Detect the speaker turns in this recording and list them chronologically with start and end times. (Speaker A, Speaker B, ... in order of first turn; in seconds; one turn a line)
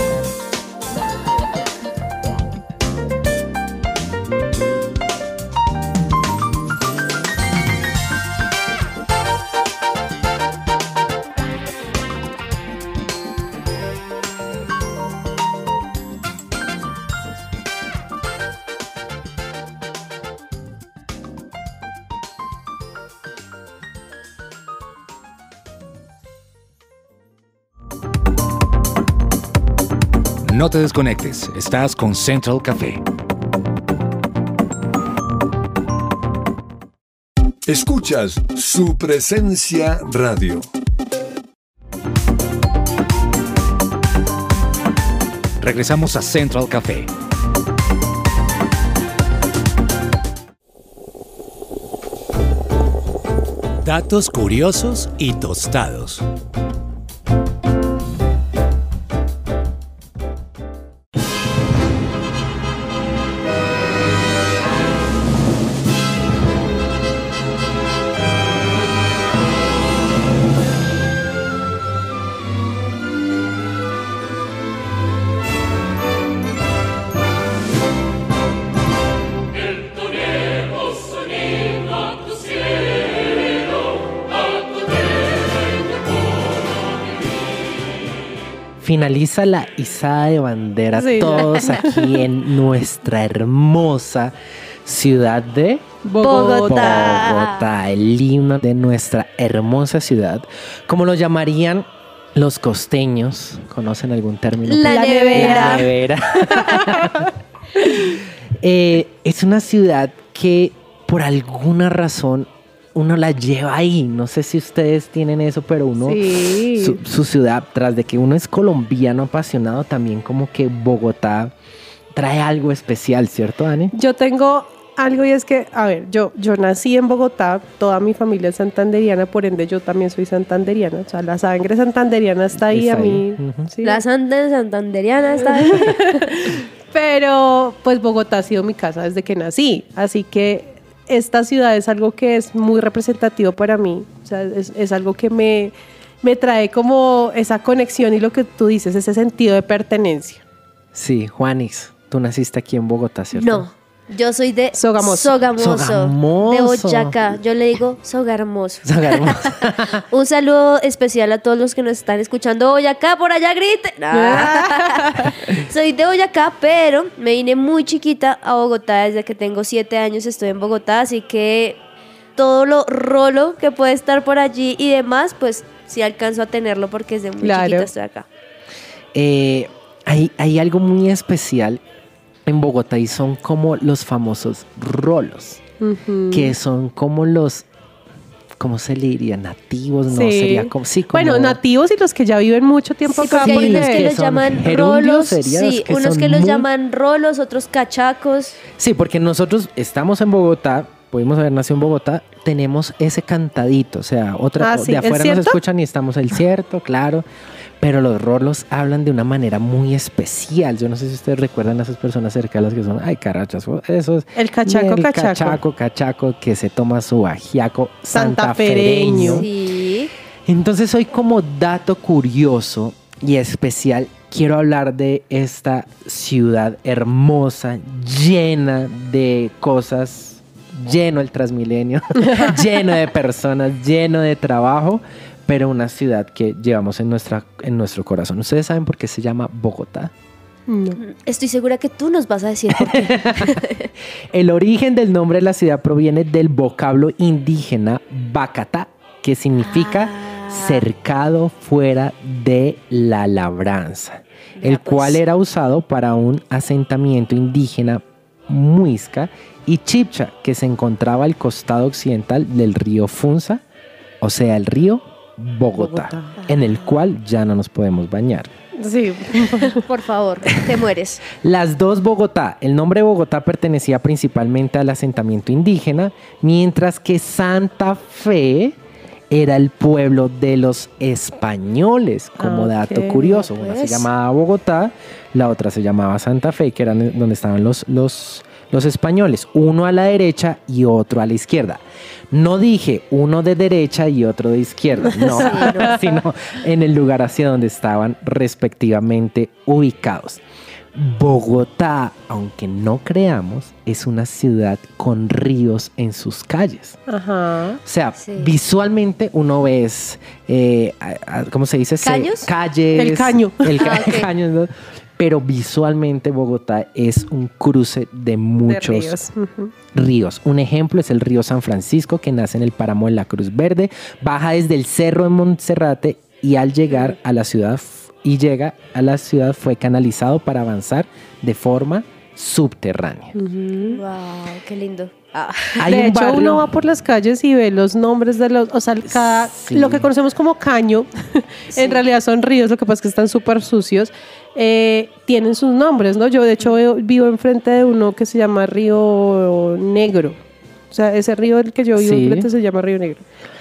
Speaker A: 30.4-33.0
Speaker B: 37.6-40.7
Speaker A: 45.6-47.1
Speaker A: 53.8-56.2
Speaker C: 88.8-107.3
Speaker D: 90.9-92.1
Speaker D: 96.0-97.1
Speaker E: 96.2-97.7
Speaker E: 104.6-105.9
Speaker D: 104.9-105.9
Speaker D: 106.5-107.2
Speaker C: 108.6-121.5
Speaker D: 116.0-117.0
Speaker C: 122.1-123.9
Speaker D: 123.9-134.0
Speaker C: 132.5-133.7
Speaker E: 133.8-136.2
Speaker D: 135.4-150.4
Speaker C: 150.9-153.7
Speaker E: 153.3-171.8
Speaker D: 154.7-155.4
Speaker C: 155.6-157.4
Speaker C: 158.8-160.0
Speaker D: 164.1-165.3
Speaker E: 172.4-178.3
Speaker D: 177.4-177.9
Speaker C: 179.1-181.8
Speaker C: 182.4-185.6
Speaker D: 185.8-186.5
Speaker C: 186.3-187.7
Speaker C: 188.6-191.6
Speaker D: 190.1-194.1
Speaker E: 193.2-198.6
Speaker C: 193.3-196.7
Speaker C: 198.8-207.2
Speaker D: 204.6-205.6
Speaker C: 207.8-219.5
Speaker D: 214.4-215.6
Speaker D: 218.1-219.4
Speaker E: 219.2-220.1
Speaker C: 220.4-240.1
Speaker D: 240.7-241.0
Speaker E: 241.0-243.9
Speaker C: 242.7-243.6
Speaker C: 244.3-263.6
Speaker E: 249.6-250.8
Speaker E: 254.6-255.2
Speaker C: 264.2-268.5
Speaker D: 265.8-266.5
Speaker D: 268.8-269.9
Speaker E: 269.6-271.2
Speaker C: 271.4-278.8
Speaker C: 279.3-300.4
Speaker D: 282.4-283.4
Speaker E: 283.5-284.1
Speaker E: 295.2-296.1
Speaker D: 295.6-295.9
Speaker C: 300.9-307.0
Speaker D: 307.1-307.8
Speaker C: 307.9-319.2
Speaker E: 308.2-308.5
Speaker E: 312.0-312.5
Speaker D: 312.9-313.8
Speaker E: 313.8-314.3
Speaker D: 318.6-319.7
Speaker C: 319.9-333.4
Speaker D: 333.4-334.0
Speaker E: 333.9-335.9
Speaker C: 335.8-336.6
Speaker D: 335.9-353.2
Speaker C: 339.1-340.1
Speaker E: 341.7-342.0
Speaker C: 351.9-352.5